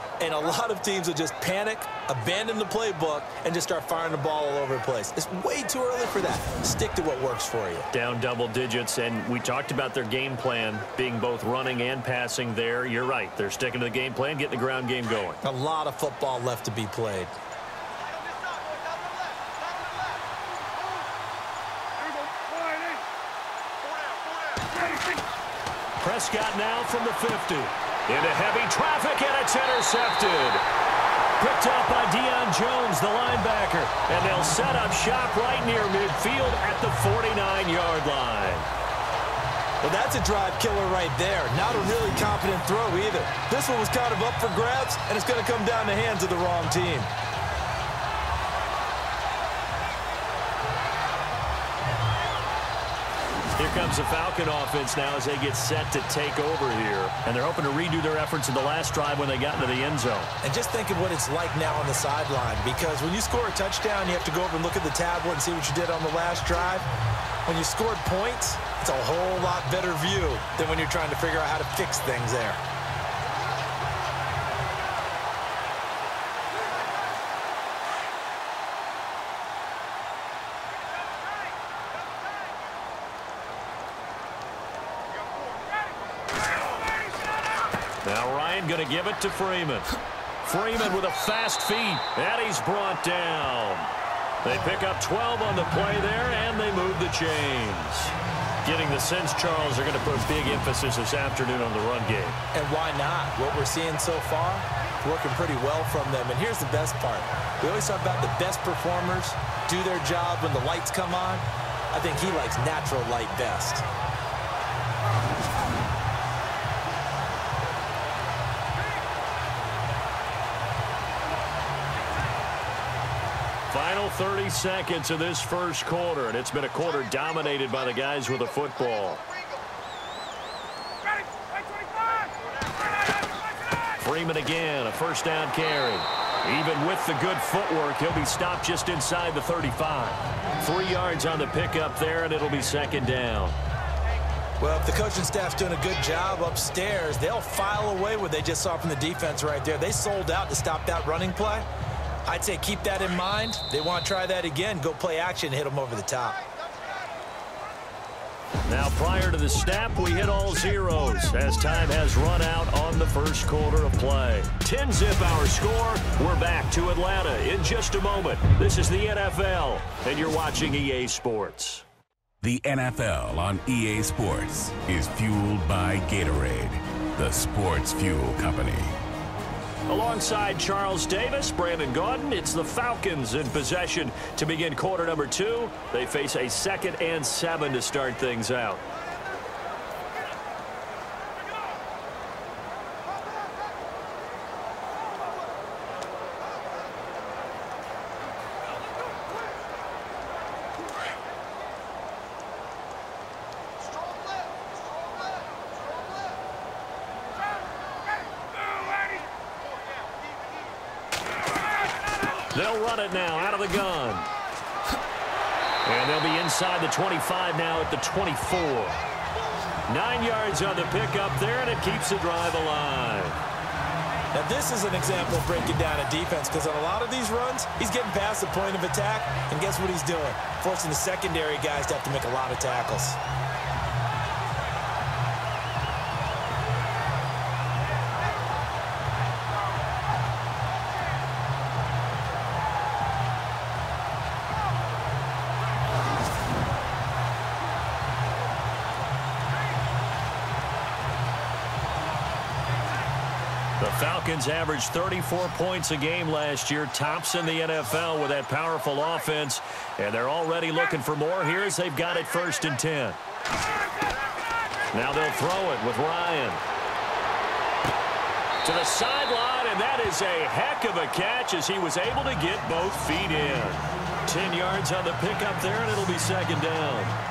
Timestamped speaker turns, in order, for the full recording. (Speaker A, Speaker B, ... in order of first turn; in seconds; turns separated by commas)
Speaker A: 0.2-7.9, Speaker B: 7.9-15.4, Speaker A: 15.4-17.4, Speaker B: 26.0-30.6, Speaker B: 31.4-38.7, Speaker A: 39.8-47.1, Speaker B: 53.6-60.3, Speaker A: 60.4-66.8, Speaker A: 67.4-72.6, Speaker B: 88.0-89.9, Speaker B: 90.4-93.9, Speaker B: 94.4-98.1, Speaker B: 98.6-102.4, Speaker A: 102.5-113.8, Speaker B: 123.7-129.2, Speaker B: 134.0-143.6, Speaker A: 144.6-151.7, Speaker A: 152.2-156.4, Speaker B: 158.7-171.8, Speaker C: 172.4-178.8, Speaker B: 179.9-188.8, Speaker B: 212.5-214.3, Speaker B: 215.8-219.0, Speaker B: 219.9-223.4, Speaker A: 224.3-233.2, Speaker B: 253.8-263.2, Speaker B: 264.9-266.6, Speaker B: 268.6-277.1